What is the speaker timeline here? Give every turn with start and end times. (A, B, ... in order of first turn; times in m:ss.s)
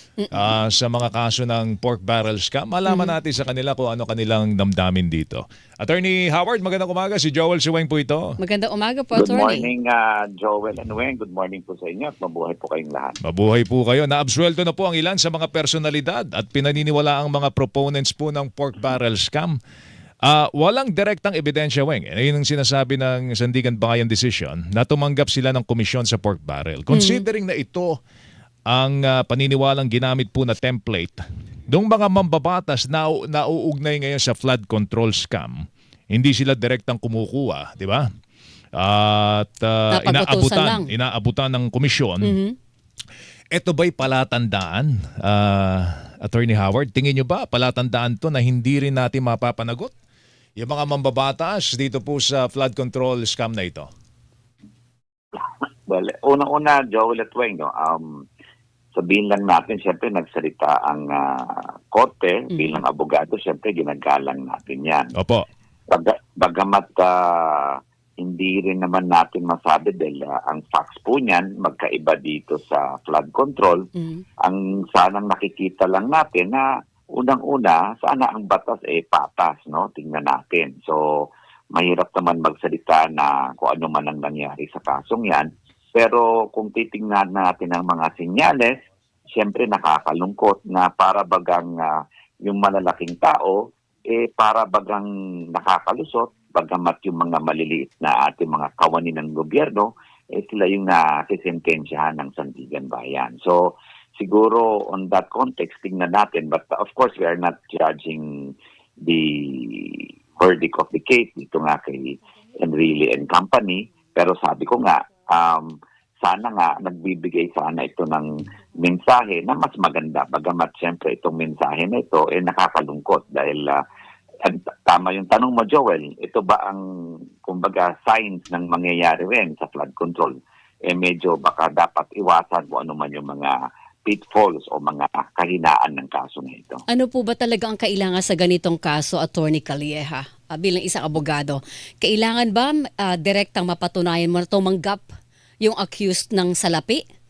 0:00.2-0:00.5 A
0:00.3-0:08.4 B
0:02.9-0:03.1 A
0:08.4-0:09.7 A
0:09.1-0:13.2 C
0:13.2-0:19.6 B
0:20.2-0:28.0 B
0:26.9-0:27.2 A
0:28.7-0:38.1 B
0:38.8-0:42.4 B
0:39.9-0:40.9 A
0:42.2-0:42.6 A
0:43.5-0:49.9 B
0:50.6-0:53.9 B
0:55.4-0:58.2 C
0:59.0-1:05.1 C
1:02.5-1:02.8 A
1:05.2-1:05.5 B
1:05.9-1:13.9 C
1:14.0-1:14.2 A
1:14.4-1:48.5 C
1:49.0-2:03.8 C
2:04.4-2:06.8 C
2:07.4-2:10.4 C
2:10.9-2:13.5 C
2:14.1-2:16.8 C
2:16.9-2:25.1 A
2:25.6-2:27.0 A